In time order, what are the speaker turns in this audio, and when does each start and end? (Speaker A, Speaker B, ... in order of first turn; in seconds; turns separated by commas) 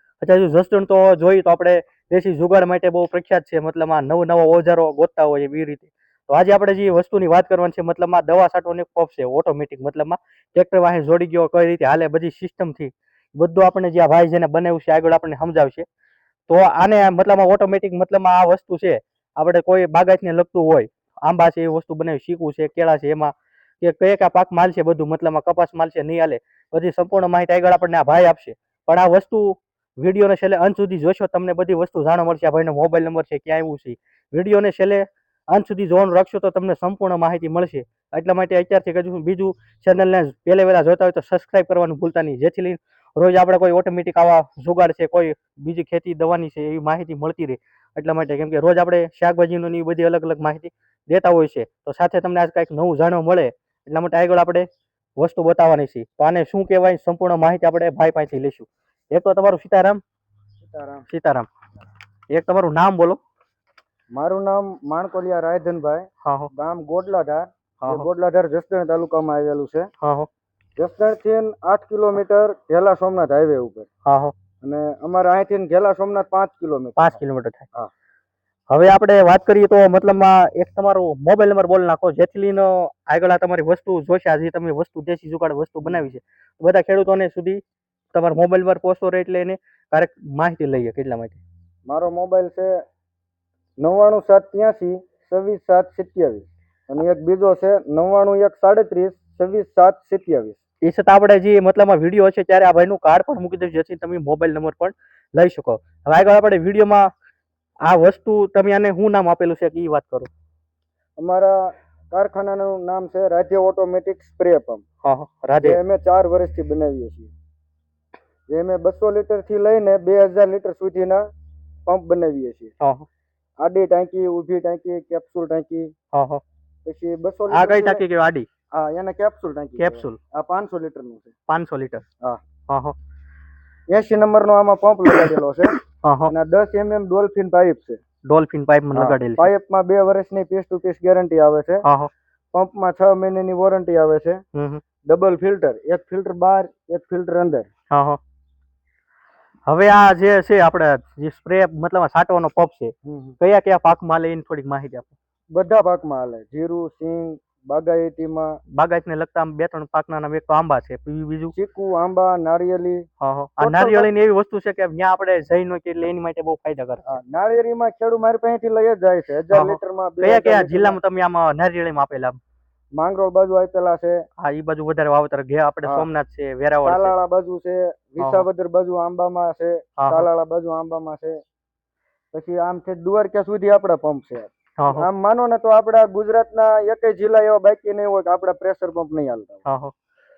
Speaker A: 0.2-15.8, Speaker A: 16.5-60.0, Speaker B: 60.6-61.1, Speaker A: 61.1-61.5, Speaker A: 62.3-63.2, Speaker B: 64.1-69.9, Speaker A: 66.2-66.5, Speaker A: 67.8-68.1, Speaker A: 70.0-70.3, Speaker B: 70.8-73.9, Speaker A: 74.1-74.3, Speaker B: 74.6-77.2, Speaker A: 77.0-77.7, Speaker A: 78.7-87.6, Speaker A: 88.1-91.4, Speaker B: 91.9-92.8, Speaker B: 93.8-100.6, Speaker A: 100.8-107.1, Speaker A: 107.8-110.3, Speaker B: 111.2-114.8, Speaker A: 115.0-115.8, Speaker B: 115.6-117.3, Speaker B: 118.5-121.2, Speaker B: 121.9-122.8, Speaker A: 122.8-123.1, Speaker B: 123.6-125.9, Speaker A: 126.1-126.4, Speaker B: 126.8-128.1, Speaker A: 127.5-128.5, Speaker B: 128.7-131.3, Speaker A: 129.8-130.2, Speaker A: 131.5-132.0, Speaker A: 132.7-132.9, Speaker B: 133.9-138.0, Speaker A: 136.0-136.3, Speaker A: 138.3-139.5, Speaker B: 138.9-141.8, Speaker A: 141.8-142.1, Speaker B: 142.5-144.4, Speaker A: 144.5-144.8, Speaker B: 145.1-147.7, Speaker A: 147.9-148.2, Speaker A: 149.7-155.1, Speaker B: 153.1-153.4, Speaker B: 155.5-158.6, Speaker A: 158.8-161.5, Speaker B: 161.5-163.1, Speaker A: 163.2-167.1, Speaker B: 163.6-164.1, Speaker B: 167.1-171.0, Speaker A: 169.5-172.4, Speaker B: 172.9-174.2, Speaker A: 174.4-177.1, Speaker B: 176.8-181.4, Speaker A: 178.2-178.4, Speaker A: 180.0-180.3, Speaker B: 182.3-189.7, Speaker A: 184.8-185.1, Speaker A: 189.7-189.9